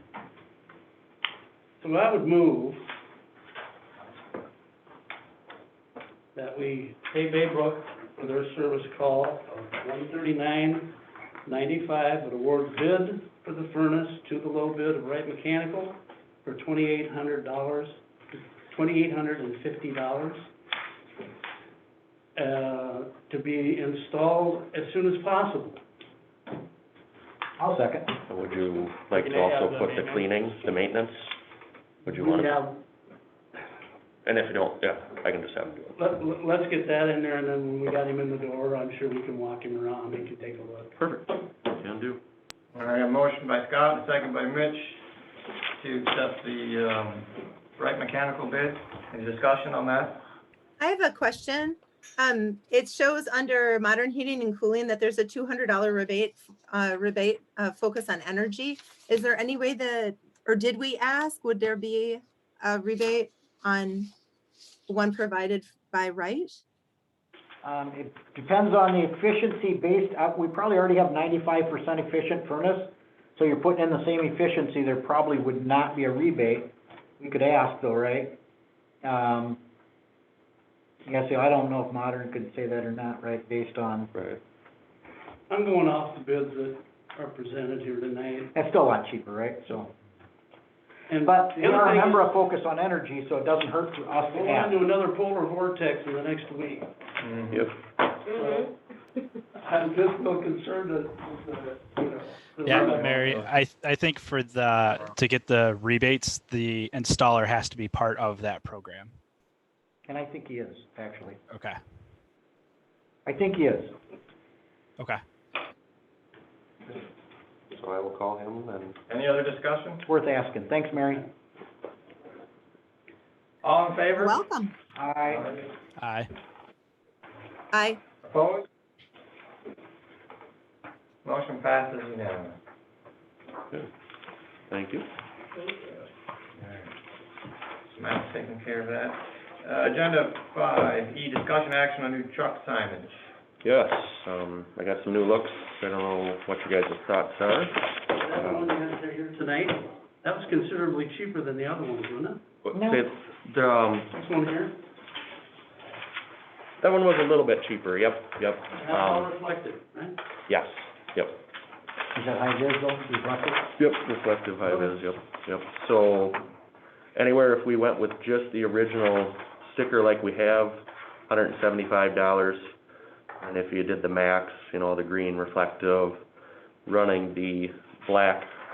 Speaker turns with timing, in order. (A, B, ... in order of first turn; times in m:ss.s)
0:01.8-0:02.8 A
0:06.3-0:18.0 A
0:18.7-0:20.5 A
0:22.4-0:25.8 A
0:27.6-0:28.2 B
0:28.3-0:31.3 C
0:32.0-0:32.6 C
0:32.1-0:32.8 A
0:34.2-0:35.9 C
0:36.0-0:40.9 A
0:41.0-0:42.2 C
0:42.7-0:45.0 D
0:45.8-0:50.2 D
0:50.8-1:04.1 E
1:04.9-1:06.6 E
1:07.6-1:18.4 B
1:19.0-1:19.6 B
1:21.0-1:24.1 B
1:24.1-1:24.4 C
1:25.5-1:28.5 A
1:28.5-1:29.9 B
1:31.1-1:32.3 A
1:31.2-1:34.8 B
1:34.3-1:36.9 A
1:37.2-1:37.5 D
1:38.2-1:38.8 A
1:39.5-1:43.4 A
1:42.6-1:49.1 F
1:50.1-1:51.4 B
1:51.5-1:51.8 F
1:53.2-1:54.0 B
1:57.7-1:59.0 C
1:59.1-2:00.0 D
2:00.0-2:01.3 B
2:03.6-2:04.4 D
2:04.2-2:04.7 E
2:05.0-2:05.4 B
2:05.3-2:05.7 D
2:06.0-2:06.3 F
2:07.7-2:08.0 E
2:08.2-2:08.7 D
2:11.2-2:12.6 D
2:14.7-2:15.1 C
2:16.6-2:16.9 D
2:17.9-2:23.3 D
2:23.6-2:28.7 C
2:28.1-2:32.4 A
2:32.6-2:34.1 C
2:32.7-2:33.0 B
2:34.1-2:34.8 A
2:36.8-2:39.3 C
2:38.7-2:40.2 A
2:40.5-2:41.4 C
2:42.1-2:43.7 B
2:43.8-2:46.5 C
2:47.1-2:52.7 C
2:53.4-2:56.2 C
2:56.8-2:58.5 C